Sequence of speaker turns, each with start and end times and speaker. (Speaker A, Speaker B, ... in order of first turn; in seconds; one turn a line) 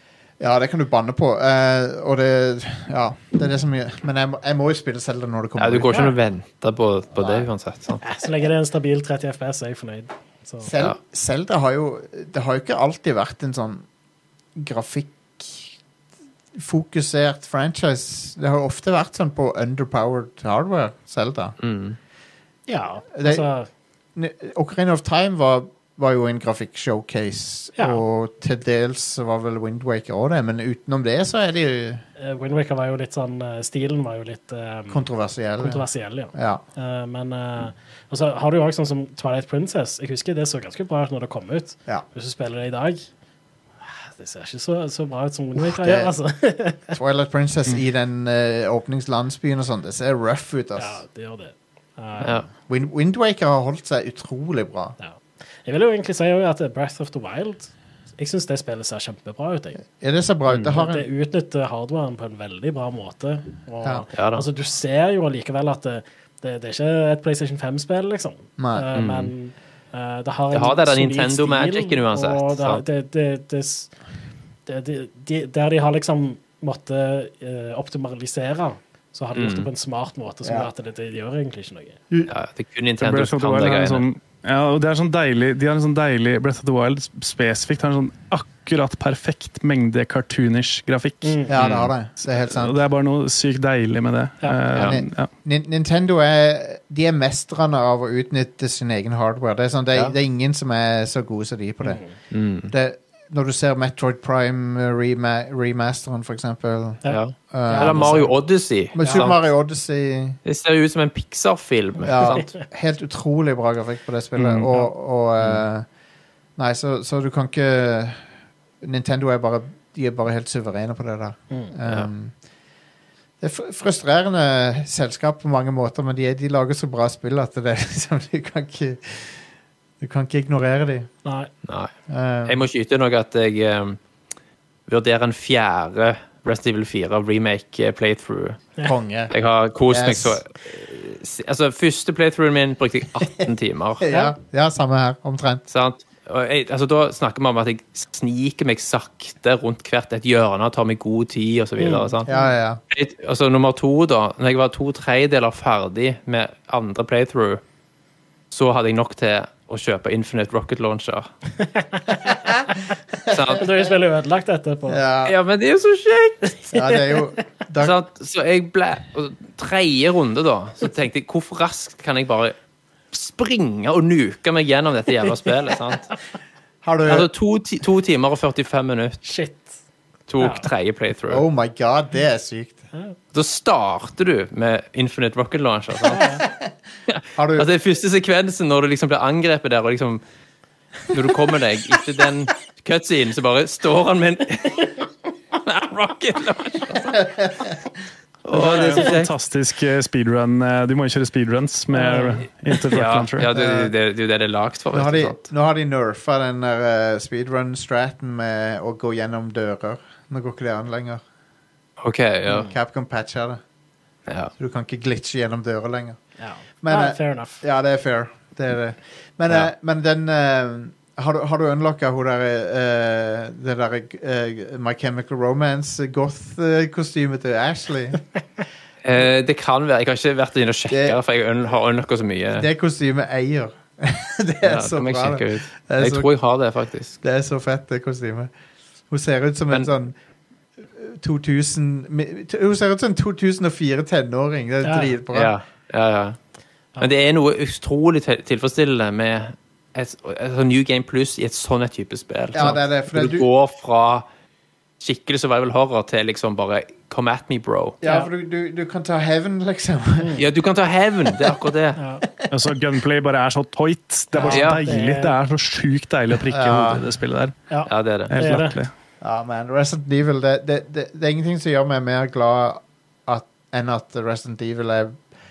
Speaker A: 0.4-6.1
Speaker B: 5.6-8.0
Speaker A: 7.2-7.5
Speaker C: 8.0-10.7
Speaker A: 10.6-13.8
Speaker A: 14.5-15.7
Speaker A: 16.5-21.6
Speaker B: 21.6-22.0
Speaker C: 22.7-23.7
Speaker A: 23.1-23.5
Speaker A: 24.1-32.0
Speaker C: 27.8-28.0
Speaker C: 32.2-35.0
Speaker A: 34.9-36.6
Speaker C: 35.6-43.1
Speaker C: 43.8-47.0
Speaker A: 45.5-46.1
Speaker A: 46.9-51.0
Speaker C: 50.8-52.5
Speaker B: 52.2-52.5
Speaker A: 52.7-55.0
Speaker C: 55.0-59.8
Speaker A: 60.0-61.0
Speaker C: 60.6-73.9
Speaker B: 64.1-64.5
Speaker A: 68.6-68.9
Speaker B: 68.9-69.3
Speaker B: 70.5-72.8
Speaker C: 74.7-82.0
Speaker B: 79.3-79.7
Speaker A: 80.4-80.7
Speaker B: 82.3-84.0
Speaker D: 83.0-91.4
Speaker C: 91.2-91.5
Speaker A: 91.5-92.8
Speaker B: 91.6-91.9
Speaker D: 92.5-95.3
Speaker A: 94.8-102.0
Speaker C: 101.8-102.1
Speaker B: 102.3-102.7
Speaker A: 102.7-108.2
Speaker C: 107.0-108.4
Speaker B: 107.1-109.4
Speaker A: 108.9-110.4
Speaker C: 109.0-109.3
Speaker B: 110.4-112.5
Speaker A: 112.0-115.8
Speaker C: 112.2-112.5
Speaker B: 114.3-114.7
Speaker A: 116.5-118.2
Speaker A: 118.8-122.3
Speaker A: 123.4-129.4
Speaker A: 130.0-131.1
Speaker C: 131.2-131.5
Speaker A: 132.1-132.6
Speaker B: 132.5-134.0
Speaker B: 134.9-138.6
Speaker A: 138.8-139.3
Speaker B: 139.3-144.2
Speaker A: 139.9-140.4
Speaker A: 144.0-145.6
Speaker B: 145.7-152.3
Speaker C: 151.8-152.5
Speaker A: 152.2-152.8
Speaker B: 152.9-157.6
Speaker B: 158.5-161.3
Speaker C: 161.6-162.3
Speaker A: 162.3-162.7
Speaker A: 163.2-163.6
Speaker B: 163.3-163.7
Speaker C: 163.5-165.0
Speaker A: 164.9-165.3
Speaker B: 165.2-166.6
Speaker C: 166.7-167.2
Speaker A: 166.7-167.9
Speaker B: 167.8-172.5
Speaker B: 173.1-176.1
Speaker A: 176.8-177.3
Speaker B: 177.1-179.2
Speaker C: 179.2-179.7
Speaker B: 180.3-181.4
Speaker C: 180.4-180.7
Speaker A: 181.3-182.8
Speaker B: 183.3-186.4
Speaker C: 186.1-186.4
Speaker A: 186.4-186.7
Speaker B: 187.1-190.2
Speaker A: 187.3-187.7
Speaker B: 191.1-195.0
Speaker B: 195.6-197.3
Speaker A: 197.1-197.8
Speaker B: 198.5-199.3
Speaker D: 198.5-203.5
Speaker C: 201.9-202.4
Speaker B: 202.9-205.4
Speaker A: 203.5-203.9
Speaker A: 204.9-211.2
Speaker B: 212.0-212.7
Speaker A: 212.5-213.6
Speaker B: 214.3-214.5
Speaker A: 214.6-216.2
Speaker C: 216.4-217.6
Speaker A: 216.8-228.2
Speaker B: 229.0-232.7
Speaker A: 230.9-231.2
Speaker A: 232.5-236.3
Speaker B: 234.6-237.2
Speaker A: 237.2-238.5
Speaker A: 239.1-240.2
Speaker A: 240.8-245.6
Speaker C: 244.8-245.2
Speaker B: 245.3-246.4
Speaker B: 247.0-254.2
Speaker A: 252.5-253.5
Speaker B: 255.0-258.0
Speaker A: 258.0-260.4
Speaker C: 258.0-258.3
Speaker C: 260.2-260.4
Speaker B: 260.4-262.0
Speaker C: 262.0-262.2
Speaker A: 262.2-262.5
Speaker D: 262.5-267.6
Speaker C: 264.3-265.4
Speaker B: 264.4-264.8
Speaker A: 266.5-267.0
Speaker C: 267.7-268.8
Speaker B: 267.9-268.3
Speaker D: 268.3-268.9
Speaker A: 269.2-275.2